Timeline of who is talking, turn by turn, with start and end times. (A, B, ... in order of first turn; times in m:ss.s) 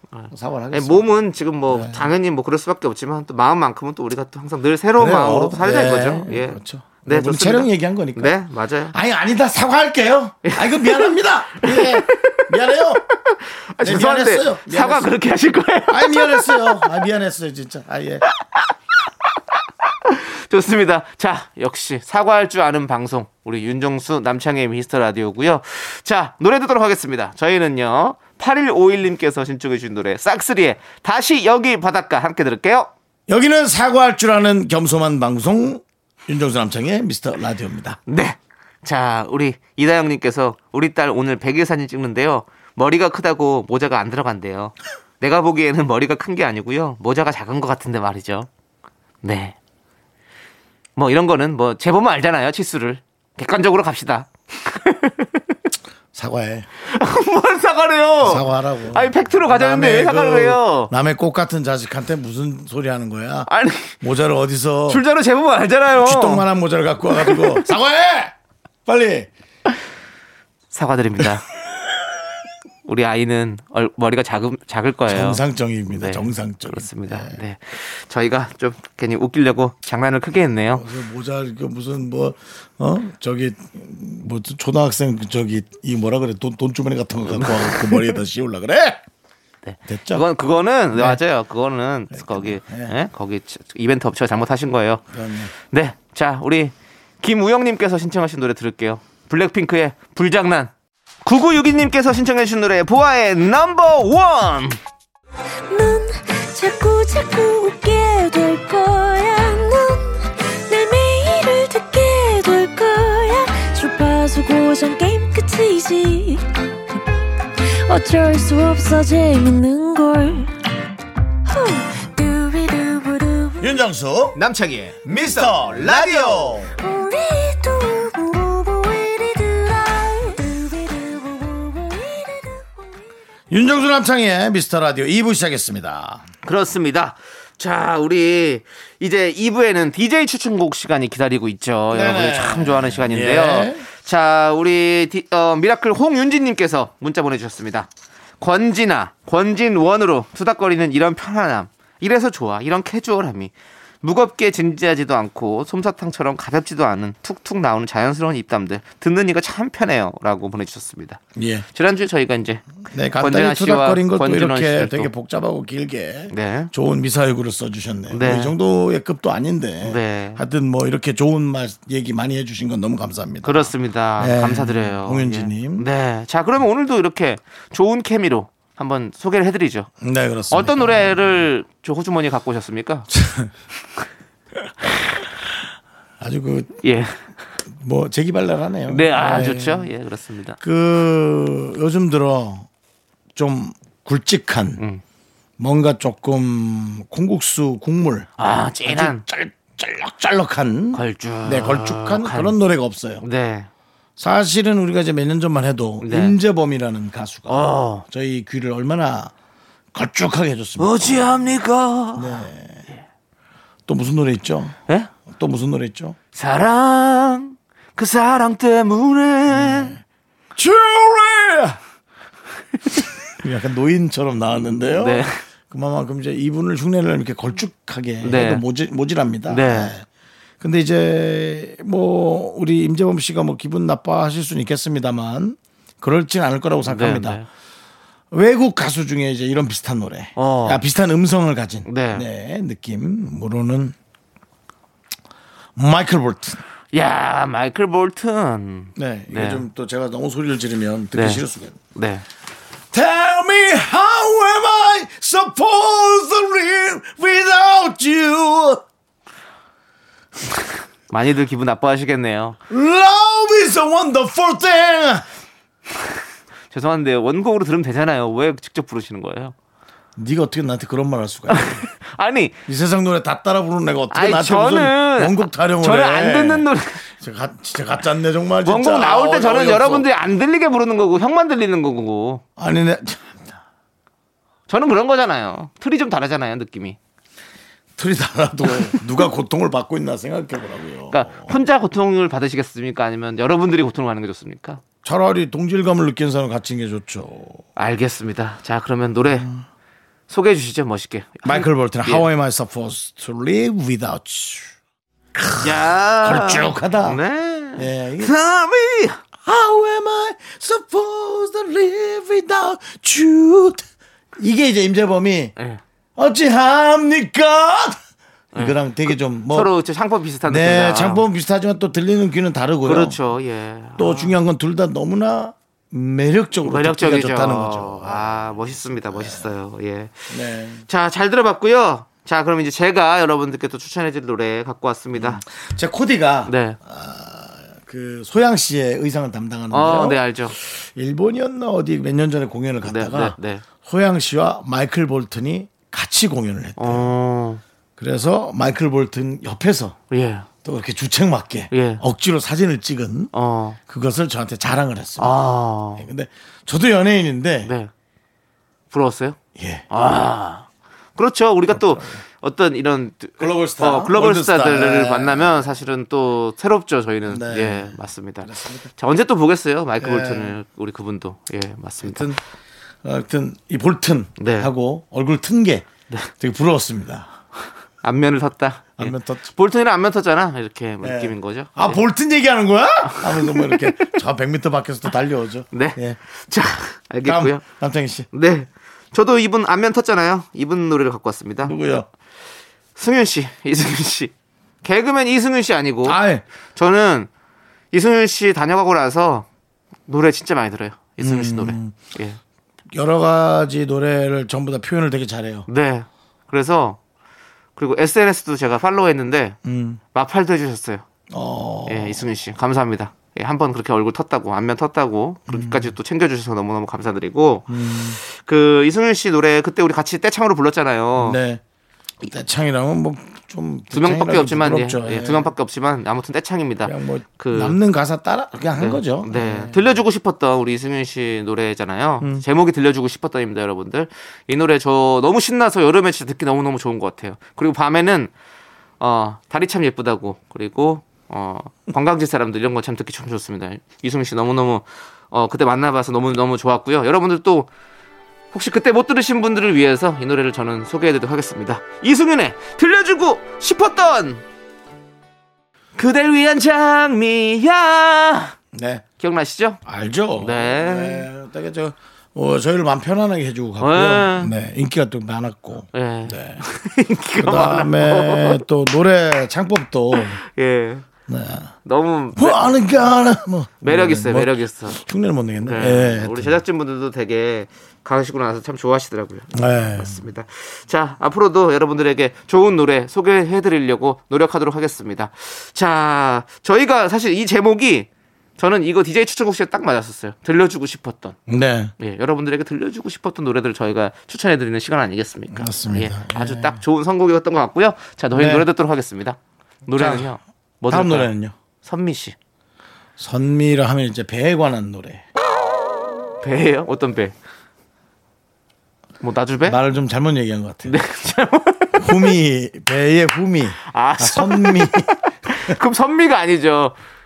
0:00.1-0:09.0 A
0:00.3-0:02.1 B
0:05.0-0:08.4 B
0:08.9-0:13.0 B
0:10.4-0:17.0 A
0:13.8-0:15.1 B
0:15.9-0:18.3 B
0:20.0-0:32.9 A
0:33.3-0:38.0 B
0:38.1-0:48.5 A
0:49.2-0:49.6 A
0:51.0-0:55.3 A
0:56.1-0:56.7 B
0:56.9-1:00.9 A
0:58.2-1:05.0 B
1:03.5-1:04.0 A
1:04.9-1:06.5 A
1:05.9-1:08.3 B
1:07.1-1:07.6 A
1:08.9-1:09.3 B
1:10.7-1:11.5 A
1:12.9-1:15.4 A
1:15.1-1:17.3 B
1:16.0-1:20.9 A
1:20.8-1:29.0 B
1:27.3-1:28.2 A
1:29.6-1:35.0 A
1:29.9-1:30.2 B
1:30.9-1:31.2 B
1:32.1-1:33.0 B
1:35.1-1:35.5 B
1:35.6-1:40.7 A
1:41.2-1:44.8 A
1:45.7-1:56.4 C
1:57.8-2:00.5 C
2:01.4-2:03.7 C
2:03.6-2:04.4 B
2:04.4-2:06.6 A
2:05.0-2:06.7 B
2:06.8-2:12.9 C
2:13.5-2:16.2 B
2:16.4-2:27.9 A
2:21.9-2:23.8 B
2:28.4-2:41.2 A
2:41.4-2:41.7 B
2:41.7-2:42.6 A
2:42.9-2:55.9 B
2:43.2-2:45.1 A
2:46.3-2:46.7 A
2:48.1-2:48.5 A
2:49.8-2:50.4 A
2:53.4-2:59.9 A
3:00.0-3:01.4 B
3:00.5-3:03.1 A
3:03.1-3:03.5 B
3:06.2-3:06.8 B
3:06.8-3:07.2 A
3:07.7-3:09.9 B
3:08.9-3:10.6 A
3:10.6-3:12.7 B
3:13.4-3:14.8 B
3:15.6-3:18.3 B
3:18.4-3:19.2 A
3:18.8-3:23.2 B
3:20.9-3:22.6 A
3:23.2-3:23.7 A
3:24.2-3:29.3 B
3:26.0-3:26.4 A
3:27.5-3:28.1 A
3:29.9-3:31.3 B
3:30.8-3:32.5 A
3:32.2-3:32.9 B
3:33.9-3:34.8 B
3:35.3-3:36.2 B
3:36.4-3:40.0 A
3:39.5-3:40.0 B
3:40.6-3:41.8 B
3:43.4-3:50.1 B
3:45.0-3:45.4 A
3:48.2-3:48.6 A
3:49.5-3:49.9 A
3:50.6-3:57.4 B
3:56.9-3:57.5 A
3:58.3-4:04.0 B
4:00.4-4:00.8 A
4:01.9-4:02.3 A
4:05.8-4:06.6 B
4:06.9-4:09.6 A
4:09.0-4:11.8 B
4:11.2-4:11.4 A
4:12.0-4:12.2 A
4:12.9-4:18.8 B
4:21.1-4:22.6 A
4:22.7-4:25.3 B
4:26.7-4:29.6 A
4:30.2-4:31.9 B
4:31.5-4:32.6 A
4:32.7-4:40.1 B
4:34.1-4:37.0 A
4:38.6-4:42.4 A
4:42.6-4:43.6 B
4:44.7-4:47.0 A
4:48.0-4:51.5 B
4:51.1-4:54.8 A
4:55.0-4:57.6 B
4:57.8-4:59.5 A
4:59.4-4:59.6 B
5:00.3-5:02.3 A
5:01.4-5:04.7 B
5:05.4-5:07.2 B
5:05.6-5:09.2 A
5:07.8-5:08.3 B
5:09.4-5:13.8 B
5:14.4-5:15.5 B
5:16.2-5:18.0 B
5:18.6-5:19.7 B
5:19.5-5:21.2 A
5:20.4-5:23.2 B
5:22.8-5:24.4 A
5:24.0-5:28.6 B
5:26.6-5:30.3 A
5:29.1-5:29.4 B
5:30.3-5:30.8 B
5:30.9-5:35.4 A
5:35.2-5:47.1 B
5:36.5-5:36.8 A
5:39.7-5:40.6 A
5:42.8-5:43.6 A
5:46.8-5:47.6 A
5:48.0-5:50.0 B
5:50.1-5:50.5 A
5:50.6-5:53.3 B
5:51.7-5:52.0 A
5:53.3-5:53.8 A
5:53.9-5:57.7 B
5:55.2-5:56.1 A
5:57.6-5:57.9 A
5:58.9-5:59.4 A
5:59.6-5:59.8 B
5:59.9-6:12.3 A
6:01.7-6:02.2 B
6:03.4-6:05.7 B
6:07.3-6:08.9 B
6:10.0-6:10.6 B
6:12.0-6:12.4 B
6:13.0-6:15.9 B
6:14.4-6:14.7 A
6:16.4-6:17.3 B
6:18.0-6:22.0 A
6:19.0-6:19.5 B
6:21.0-6:26.2 B
6:23.1-6:24.1 A
6:25.7-6:27.6 A
6:27.2-6:28.3 B
6:28.3-6:31.7 A
6:31.6-6:32.1 B
6:33.0-6:36.2 A
6:36.0-6:36.4 B
6:36.8-6:37.3 A
6:37.9-6:39.5 A
6:40.1-6:42.4 A
6:41.2-6:42.0 B
6:42.9-6:45.7 B
6:45.7-6:47.0 A
6:47.8-6:49.6 A
6:49.6-6:50.0 B
6:50.1-6:51.0 A
6:51.3-6:52.3 B
6:51.9-7:01.4 A
6:55.5-6:55.9 B
6:57.7-6:58.2 B
7:01.2-7:01.6 B
7:02.2-7:05.5 B
7:03.9-7:07.8 A
7:06.8-7:09.9 B
7:08.8-7:18.3 A
7:19.0-7:27.7 A
7:28.5-7:34.4 A
7:36.0-7:38.6 A
7:38.7-7:39.0 B
7:39.2-7:39.8 A
7:39.8-7:46.6 B
7:40.4-7:41.3 A
7:43.8-7:44.5 A
7:45.9-7:48.6 A
7:47.4-7:50.4 B
7:50.1-7:51.1 A
7:51.3-7:51.7 B
7:51.8-7:53.1 A
7:52.4-7:56.6 B
7:53.8-7:55.0 A
7:55.6-8:11.4 A
7:59.5-8:00.2 B
8:11.5-8:11.9 B
8:12.0-8:21.3 A
8:15.5-8:16.8 B
8:18.4-8:18.7 B
8:19.9-8:20.4 B
8:20.9-8:21.5 B
8:21.8-8:22.4 A
8:23.2-8:25.2 B
8:26.4-8:27.4 A
8:29.2-8:29.8 A
8:29.6-8:31.0 B
8:30.8-8:32.3 A
8:32.0-8:35.8 B
8:33.8-8:37.0 A